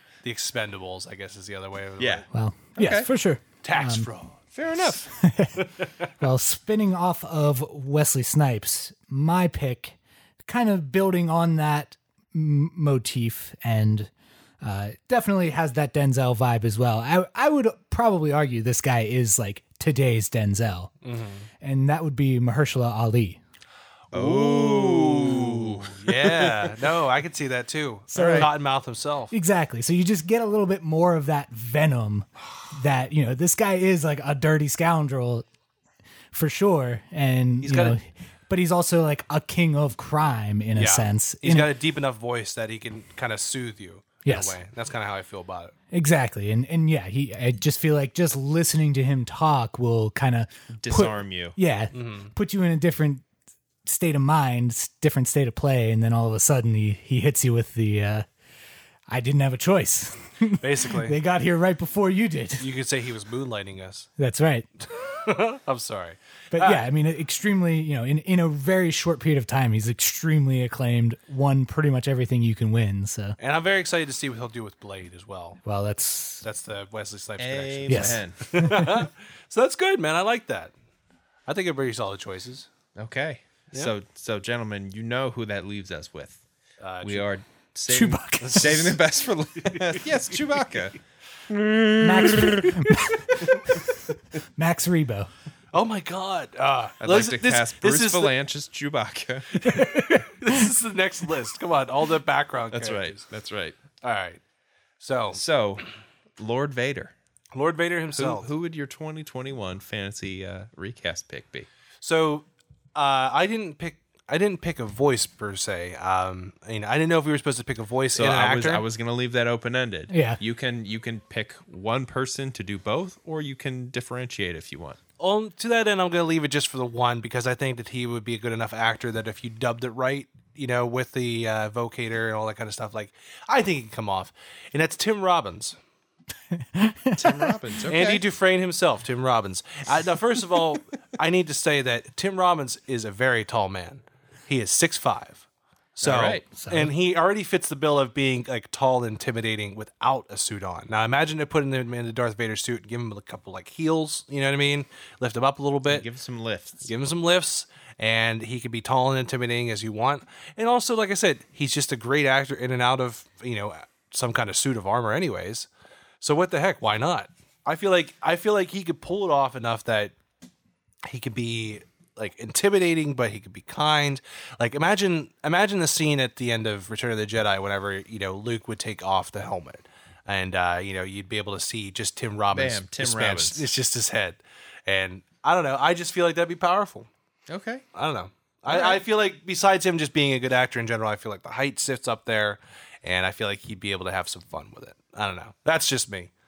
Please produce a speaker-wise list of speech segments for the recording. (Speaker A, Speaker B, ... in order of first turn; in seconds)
Speaker A: 0.2-2.3, 3.6-4.4, 21.0-21.5, 24.1-29.3, 37.6-38.0, 40.8-45.7, 51.9-52.3, 60.6-61.2, 62.6-64.1, 64.9-66.8, 73.4-75.6, 76.4-80.7, 81.5-82.7, 86.8-87.3, 88.4-89.0, 89.6-90.0, 95.7-98.3, 99.5-103.2, 104.0-104.4, 105.0-105.4, 107.5-108.5, 112.0-118.8, 125.2-135.8, 137.9-145.4, 145.9-156.1, 156.8-165.7, 166.2-170.1, 171.1-187.1, 187.9-196.3
Speaker B: 2.0-2.2, 2.8-3.1, 4.5-5.1, 24.1-26.7, 28.1-28.5, 50.7-51.6, 77.4-78.5, 83.0-86.4, 87.0-91.0, 91.5-93.9, 97.0-99.8, 102.7-103.8, 105.3-107.1, 108.1-111.7, 118.1-125.0, 137.1-138.2, 146.0-146.4, 155.9-156.8, 182.5-183.7, 187.5-187.8, 188.7-189.0
Speaker C: 2.3-4.1, 4.8-20.9, 21.6-23.4, 28.1-28.5, 29.3-35.4, 36.3-41.7, 44.2-44.5, 45.9-53.2, 53.8-58.2, 59.1-62.6, 64.2-64.7, 66.5-73.4, 75.6-76.4, 77.9-79.0, 87.9-88.9, 92.0-95.3, 99.7-100.5, 120.1-120.4, 136.5-137.6, 146.6-146.9